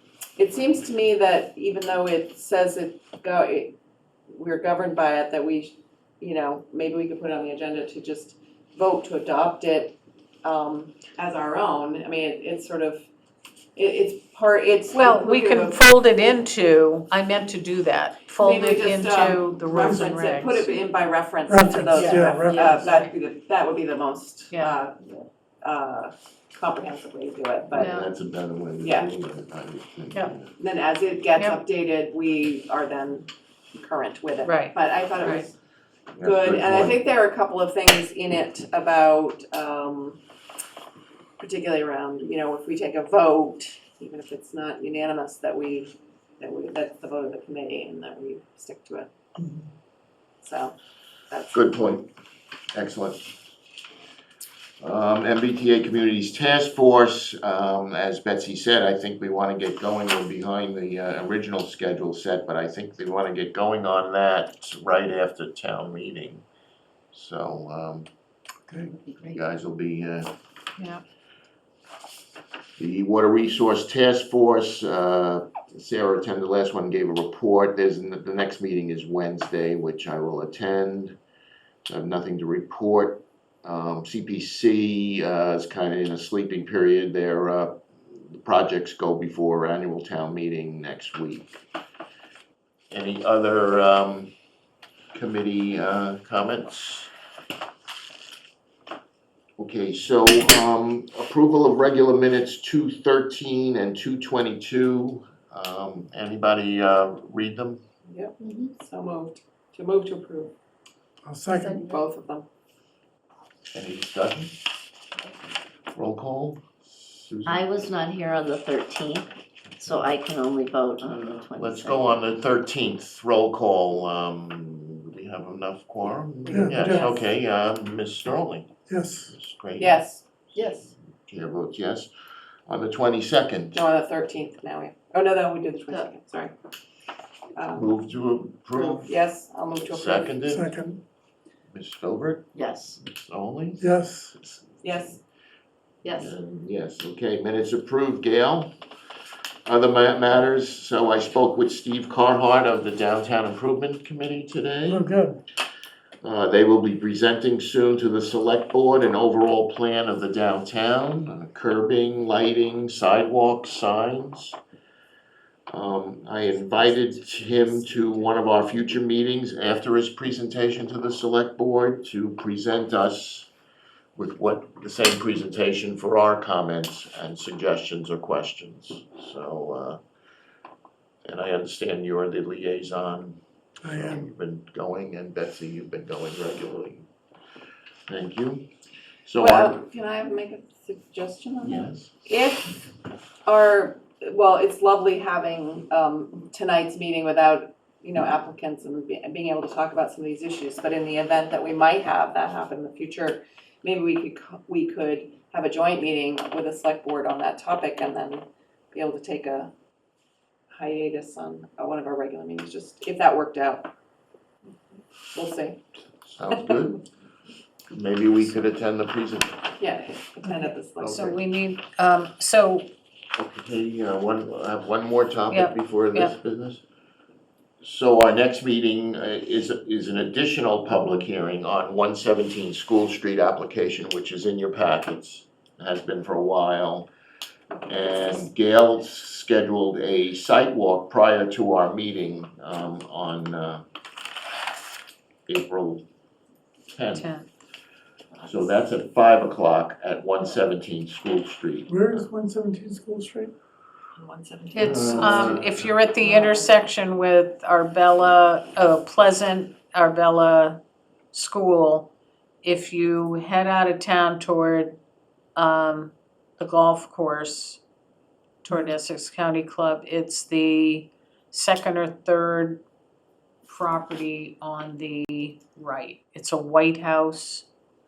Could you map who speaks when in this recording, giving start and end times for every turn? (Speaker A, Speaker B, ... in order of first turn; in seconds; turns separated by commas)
Speaker A: 0.4-3.8, Speaker A: 4.3-13.1, Speaker A: 13.7-15.8, Speaker B: 14.9-20.8, Speaker A: 18.4-25.0, Speaker C: 19.7-20.1, Speaker C: 21.5-22.7, Speaker D: 21.9-22.9, Speaker B: 22.7-23.1, Speaker A: 25.6-28.0, Speaker E: 27.7-30.5, Speaker B: 27.8-28.1, Speaker A: 28.8-29.1, Speaker A: 30.6-35.5, Speaker B: 34.4-35.5, Speaker E: 36.1-37.0, Speaker A: 36.2-40.2, Speaker A: 41.4-49.1, Speaker C: 49.4-49.7, Speaker A: 50.4-50.8, Speaker A: 51.3-51.7, Speaker E: 51.5-52.1, Speaker E: 52.7-53.3, Speaker E: 54.8-66.4, Speaker E: 67.1-68.1, Speaker D: 68.8-69.4, Speaker E: 69.2-70.3, Speaker E: 72.8-81.2, Speaker E: 81.9-91.6, Speaker E: 92.9-94.3, Speaker E: 95.1-97.1, Speaker E: 99.6-107.8, Speaker A: 108.1-110.5, Speaker D: 108.4-108.7, Speaker C: 111.2-111.8, Speaker A: 111.8-112.5, Speaker E: 113.7-114.5, Speaker E: 115.9-117.7, Speaker D: 117.5-119.3, Speaker D: 119.8-122.1, Speaker E: 121.0-128.8, Speaker A: 126.5-127.1, Speaker C: 126.5-127.1, Speaker D: 126.9-127.1, Speaker C: 128.9-129.3, Speaker E: 129.3-130.0, Speaker A: 129.8-130.9, Speaker E: 131.2-132.1, Speaker E: 132.7-133.8, Speaker A: 133.7-136.5, Speaker A: 137.5-137.9, Speaker E: 137.7-139.2, Speaker A: 138.7-140.4, Speaker E: 139.8-140.7, Speaker C: 140.4-141.0, Speaker E: 141.7-143.9, Speaker D: 142.5-143.0, Speaker C: 143.8-144.3, Speaker A: 144.8-145.2, Speaker D: 146.0-146.3, Speaker E: 146.2-148.7, Speaker E: 149.7-155.1, Speaker C: 154.9-155.4, Speaker E: 156.2-164.6, Speaker E: 165.7-173.5, Speaker E: 174.2-180.0, Speaker E: 181.2-187.1, Speaker C: 183.8-184.3, Speaker E: 188.1-188.7, Speaker E: 189.2-189.8, Speaker A: 189.4-192.8, Speaker E: 191.6-192.1, Speaker A: 193.5-209.7, Speaker A: 210.7-213.9, Speaker A: 215.3-215.8, Speaker E: 216.3-217.0, Speaker E: 217.9-219.6, Speaker A: 219.8-221.4, Speaker B: 221.0-222.9, Speaker E: 223.3-226.8, Speaker B: 225.5-226.3, Speaker E: 227.8-237.1, Speaker E: 237.8-243.8, Speaker E: 245.5-246.0, Speaker E: 246.9-247.3, Speaker B: 247.1-247.5, Speaker E: 248.4-252.3, Speaker C: 251.9-253.5, Speaker A: 254.2-255.7, Speaker B: 254.7-260.8, Speaker E: 254.8-255.8, Speaker A: 256.2-256.7, Speaker B: 261.3-262.1, Speaker B: 262.6-265.0, Speaker B: 265.6-267.8, Speaker B: 268.6-272.8, Speaker B: 273.7-277.6